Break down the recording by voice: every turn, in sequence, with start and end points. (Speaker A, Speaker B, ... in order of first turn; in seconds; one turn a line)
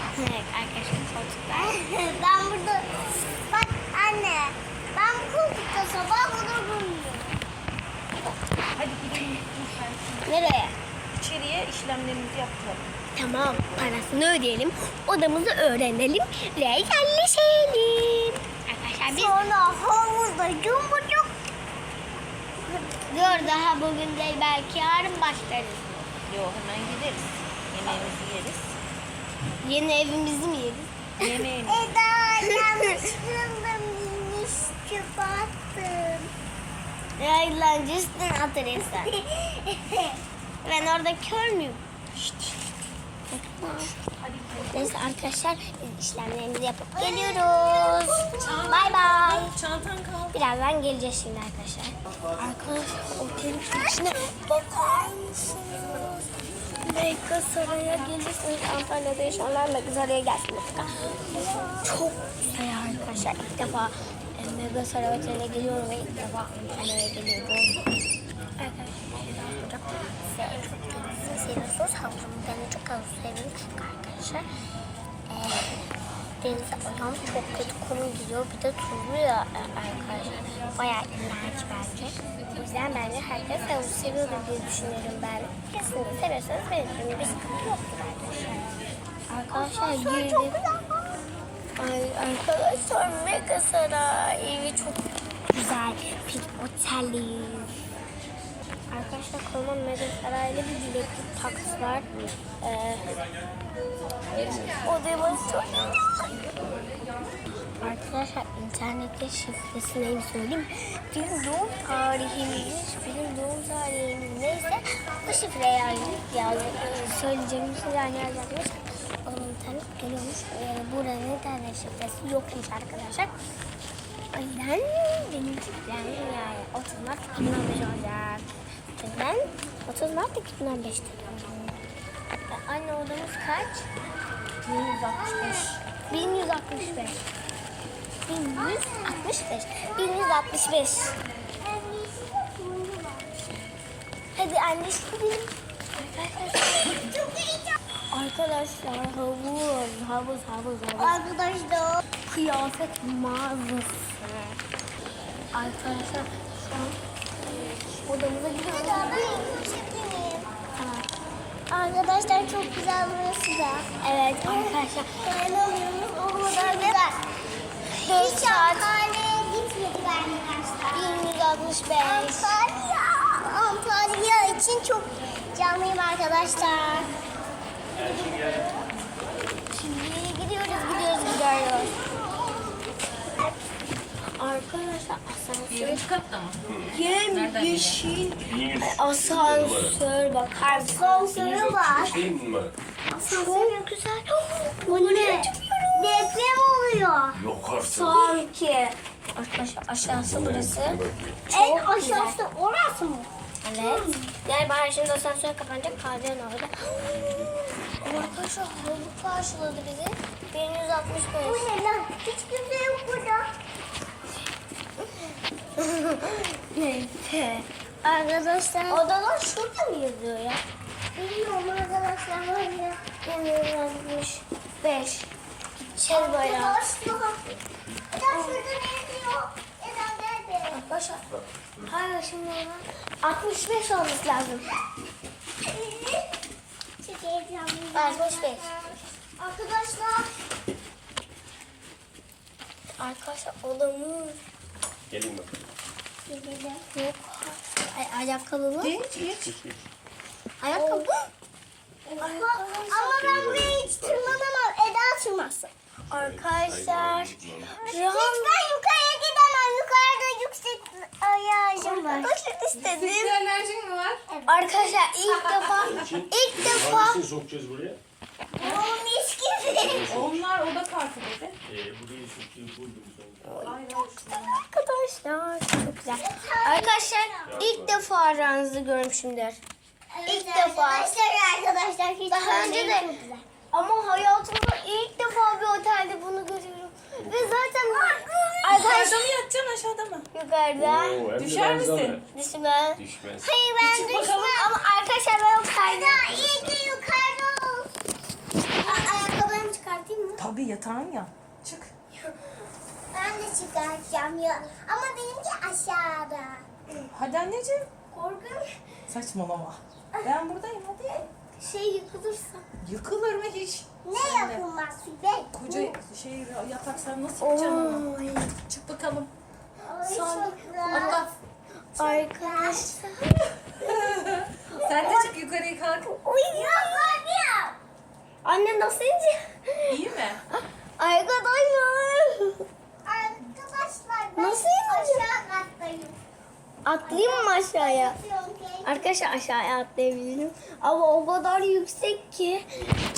Speaker A: 0.1-1.8
Speaker B: 1.6-7.4
Speaker C: 8.8-10.3
Speaker A: 10.2-10.8
Speaker C: 11.2-12.8
Speaker A: 13.2-19.4
Speaker B: 19.1-21.3
Speaker B: 22.7-23.5
Speaker A: 23.1-26.0
Speaker C: 26.3-28.8
Speaker A: 29.6-31.2
Speaker C: 31.2-31.9
Speaker B: 31.2-36.3
Speaker A: 32.4-33.0
Speaker A: 37.2-39.1
Speaker B: 38.8-40.2
Speaker A: 40.6-41.8
Speaker A: 43.3-43.9
Speaker C: 44.2-44.9
Speaker A: 44.7-49.5
Speaker B: 47.0-49.5
Speaker C: 48.4-50.4
Speaker A: 50.3-56.2
Speaker A: 56.8-61.2
Speaker B: 61.3-61.9
Speaker A: 61.8-67.8
Speaker A: 68.6-74.5
Speaker A: 75.3-75.8
Speaker A: 76.4-88.7
Speaker A: 89.3-90.6
Speaker B: 89.5-91.3
Speaker A: 91.8-95.0
Speaker A: 95.5-97.8
Speaker A: 98.9-102.1
Speaker A: 102.6-103.2
Speaker A: 104.8-106.5
Speaker A: 107.8-123.3
Speaker A: 124.3-131.6
Speaker A: 132.5-133.9
Speaker C: 134.6-135.8
Speaker B: 135.1-135.8
Speaker A: 136.1-137.2
Speaker A: 138.2-141.2
Speaker B: 138.6-139.3
Speaker B: 141.6-143.7
Speaker A: 144.4-147.0
Speaker B: 146.9-147.8
Speaker A: 148.1-151.2
Speaker B: 151.0-152.0
Speaker A: 152.3-154.6
Speaker A: 155.5-157.0
Speaker A: 158.0-159.2
Speaker B: 158.7-160.5
Speaker A: 160.8-161.1
Speaker B: 161.7-163.9
Speaker A: 164.0-165.3
Speaker B: 164.4-167.2
Speaker A: 166.4-167.0
Speaker A: 168.0-168.9
Speaker B: 168.0-171.3
Speaker A: 170.9-172.6
Speaker B: 172.0-177.1
Speaker B: 178.0-178.4
Speaker A: 179.7-181.9
Speaker A: 184.4-186.0
Speaker C: 185.7-186.7
Speaker A: 186.9-191.2
Speaker C: 187.3-188.0
Speaker D: 188.4-190.0
Speaker B: 190.7-192.3
Speaker D: 191.3-192.8
Speaker B: 193.1-193.8
Speaker A: 193.2-196.4
Speaker B: 194.9-197.4
Speaker D: 197.3-198.3
Speaker A: 197.8-202.4
Speaker D: 200.2-201.4
Speaker B: 201.5-204.3
Speaker A: 203.6-207.3
Speaker D: 207.1-207.6
Speaker A: 208.0-211.7
Speaker B: 211.4-213.5
Speaker A: 215.8-217.7
Speaker B: 218.0-219.1
Speaker A: 218.9-220.6
Speaker B: 221.1-223.0
Speaker A: 223.2-226.8
Speaker B: 226.1-227.4
Speaker B: 228.1-230.8
Speaker A: 228.3-228.6
Speaker A: 230.7-231.3
Speaker A: 231.8-234.7
Speaker B: 235.7-236.4
Speaker B: 237.0-240.3
Speaker A: 237.9-238.7
Speaker A: 243.0-244.4
Speaker D: 245.1-245.6
Speaker B: 246.3-246.9
Speaker A: 246.9-249.0
Speaker C: 248.8-249.6
Speaker B: 250.6-251.2
Speaker A: 250.7-251.1
Speaker B: 252.1-255.7
Speaker A: 252.2-253.2
Speaker D: 253.1-254.5
Speaker A: 256.1-258.6
Speaker D: 256.1-257.7
Speaker B: 257.6-262.3
Speaker A: 261.8-263.4
Speaker C: 262.8-264.3
Speaker B: 264.3-265.0
Speaker A: 264.5-267.3
Speaker C: 265.5-265.9
Speaker D: 265.9-268.0
Speaker C: 268.6-268.9
Speaker B: 268.6-270.2
Speaker D: 269.6-270.4
Speaker C: 270.0-271.6
Speaker D: 271.6-273.5
Speaker A: 273.4-273.8
Speaker C: 273.6-274.6
Speaker A: 274.3-279.6
Speaker B: 276.1-277.6
Speaker D: 277.5-278.0
Speaker B: 280.1-283.5
Speaker A: 280.3-281.1
Speaker A: 282.3-283.1
Speaker A: 283.7-289.4
Speaker D: 287.2-287.6
Speaker B: 287.8-288.7
Speaker C: 288.7-290.3
Speaker A: 290.3-291.3
Speaker D: 290.8-292.2
Speaker C: 291.4-292.2
Speaker A: 292.3-293.0
Speaker D: 293.0-293.5
Speaker B: 293.4-294.7
Speaker C: 293.8-294.5
Speaker A: 294.4-296.2
Speaker B: 295.8-297.9
Speaker D: 296.2-296.9
Speaker B: 298.8-300.4
Speaker A: 298.9-299.2
Speaker C: 300.4-301.9
Speaker B: 303.1-306.7
Speaker C: 307.1-307.9
Speaker A: 308.1-308.8
Speaker C: 309.1-311.2
Speaker A: 311.6-312.6
Speaker C: 312.8-314.6
Speaker B: 314.0-315.5
Speaker C: 315.5-319.3
Speaker A: 317.4-318.6
Speaker B: 319.8-321.2
Speaker C: 320.0-321.4
Speaker A: 321.9-323.5
Speaker C: 322.0-322.3
Speaker B: 322.4-323.0
Speaker C: 323.7-326.1
Speaker B: 323.8-324.2
Speaker A: 324.6-325.3
Speaker A: 326.0-327.2
Speaker B: 326.5-327.8
Speaker A: 328.4-329.9
Speaker C: 329.9-330.4
Speaker A: 330.5-332.7
Speaker B: 333.1-336.2
Speaker A: 334.4-335.3
Speaker A: 336.9-338.2
Speaker B: 337.0-339.1
Speaker A: 338.9-342.7